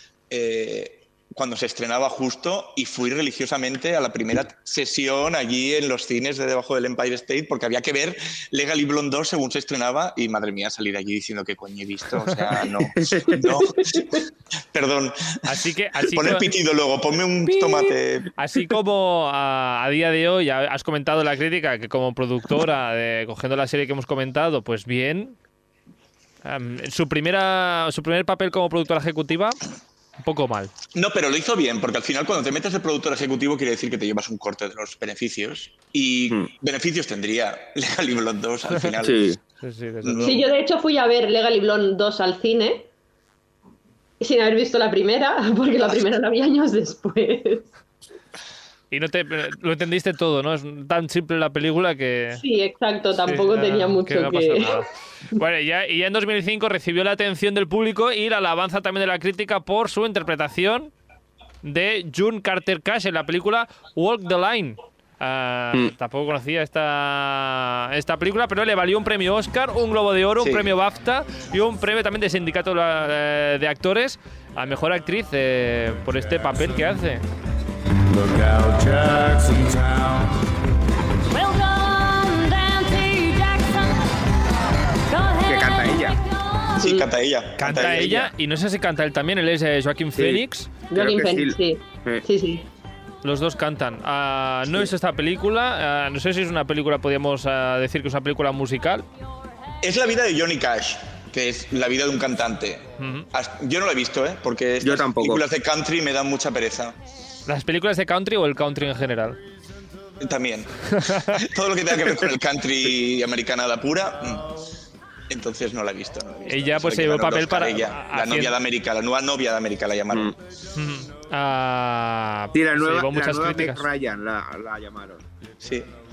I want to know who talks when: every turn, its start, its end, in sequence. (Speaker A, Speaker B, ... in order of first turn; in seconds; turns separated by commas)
Speaker A: 0.3-18.3, Speaker B: 13.0-13.5, Speaker C: 15.4-16.5, Speaker D: 17.6-17.9, Speaker C: 18.4-25.4, Speaker C: 26.4-29.6, Speaker C: 30.2-30.7, Speaker A: 30.9-39.4, Speaker B: 39.0-39.4, Speaker C: 39.6-40.4, Speaker A: 40.0-40.5, Speaker D: 40.2-42.9, Speaker D: 44.2-47.6, Speaker C: 48.9-52.4, Speaker D: 52.4-54.8, Speaker C: 53.2-60.9, Speaker C: 61.6-77.2, Speaker A: 70.4-70.7, Speaker E: 81.3-84.1, Speaker E: 85.1-86.8, Speaker B: 85.5-86.2, Speaker A: 86.8-88.3, Speaker D: 86.8-87.1, Speaker C: 87.6-90.7, Speaker B: 90.2-90.4, Speaker D: 90.9-92.7, Speaker B: 90.9-92.2, Speaker C: 93.2-99.0, Speaker A: 99.8-107.0, Speaker C: 103.0-103.3, Speaker B: 104.8-105.4, Speaker C: 107.5-109.4, Speaker A: 110.2-114.5, Speaker C: 111.0-111.4, Speaker A: 115.3-120.4, Speaker C: 116.5-118.5, Speaker C: 120.7-123.9, Speaker B: 122.5-125.2, Speaker A: 125.6-125.9